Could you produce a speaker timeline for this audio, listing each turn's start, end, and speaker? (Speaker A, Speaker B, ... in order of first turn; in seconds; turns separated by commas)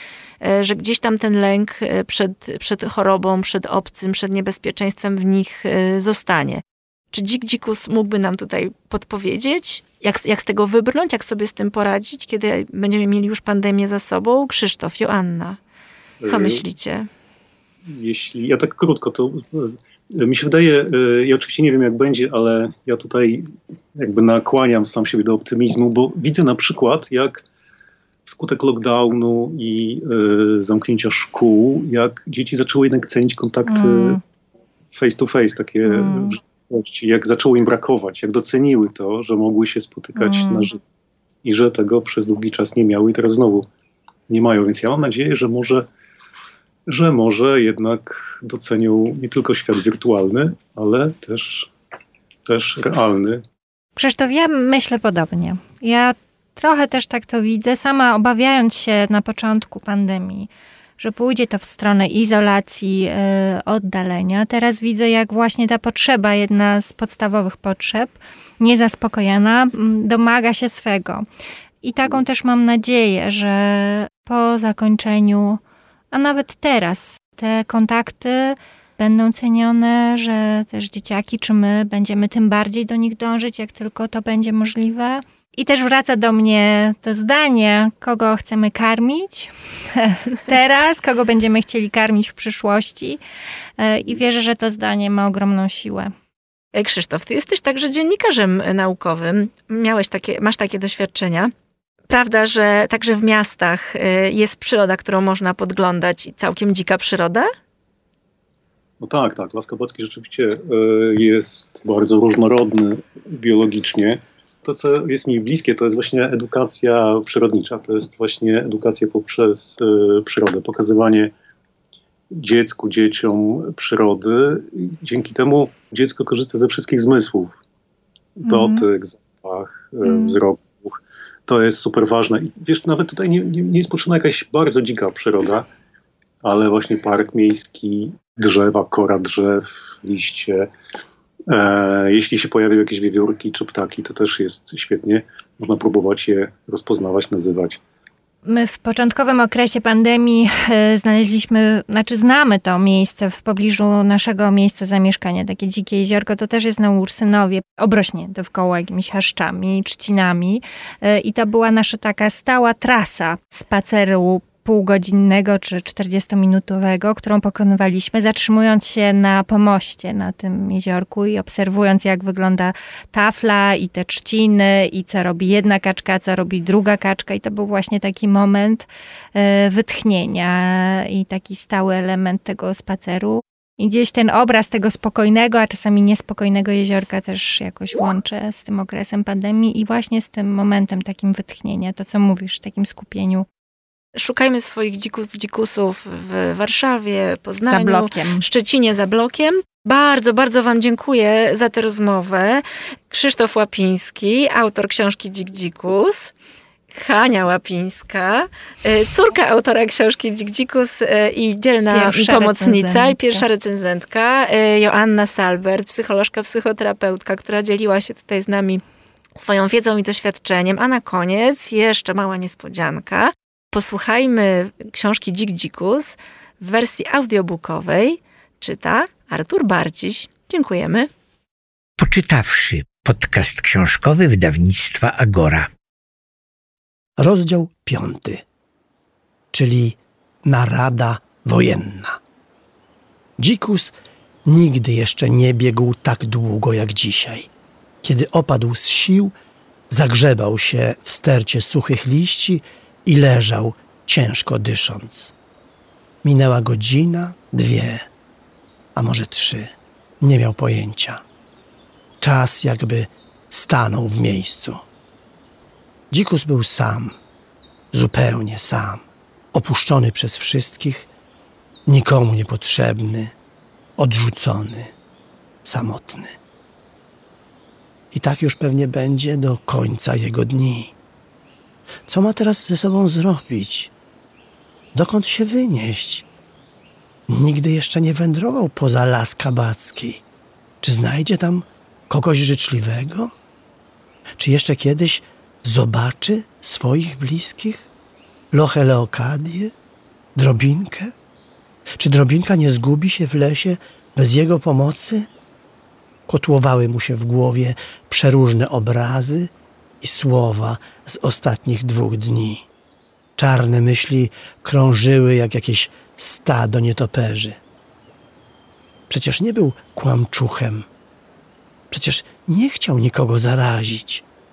Speaker A: 0.4-15.6, Speaker B: 16.2-16.6, Speaker A: 16.3-17.1, Speaker B: 17.9-27.4, Speaker B: 28.3-34.2, Speaker C: 33.7-34.2, Speaker B: 34.9-40.8, Speaker C: 35.9-36.4, Speaker C: 40.2-40.7, Speaker B: 41.4-43.7, Speaker B: 44.3-45.9, Speaker B: 46.9-51.7, Speaker B: 52.5-53.4, Speaker C: 54.0-71.2, Speaker C: 71.8-93.2, Speaker C: 93.8-96.1, Speaker A: 96.7-101.5, Speaker A: 102.1-107.5, Speaker B: 109.0-121.3, Speaker B: 122.3-127.6, Speaker B: 128.4-135.7, Speaker C: 128.5-128.9, Speaker C: 130.1-130.4, Speaker B: 136.4-140.7, Speaker B: 141.5-147.8, Speaker C: 148.5-193.5, Speaker A: 194.2-206.3, Speaker C: 197.7-198.4, Speaker A: 206.9-218.8, Speaker C: 211.9-213.4, Speaker A: 219.4-231.1, Speaker D: 232.0-235.7, Speaker E: 237.2-238.4, Speaker E: 239.5-242.2, Speaker E: 243.4-243.9, Speaker E: 244.5-247.5, Speaker E: 248.0-249.3, Speaker E: 249.9-255.3, Speaker E: 256.2-258.1, Speaker E: 259.0-261.2, Speaker E: 262.2-264.8, Speaker E: 266.1-267.2, Speaker E: 267.9-271.1, Speaker E: 271.9-273.3, Speaker E: 274.0-274.9, Speaker E: 275.6-276.4, Speaker E: 278.1-280.9, Speaker E: 282.1-283.9, Speaker E: 284.9-286.2, Speaker E: 287.3-290.2, Speaker E: 290.8-293.3, Speaker E: 294.4-297.9, Speaker E: 298.5-299.7, Speaker E: 300.4-301.1, Speaker E: 302.0-305.3, Speaker E: 306.3-312.6, Speaker E: 313.4-317.6, Speaker E: 319.1-320.9, Speaker E: 321.9-324.2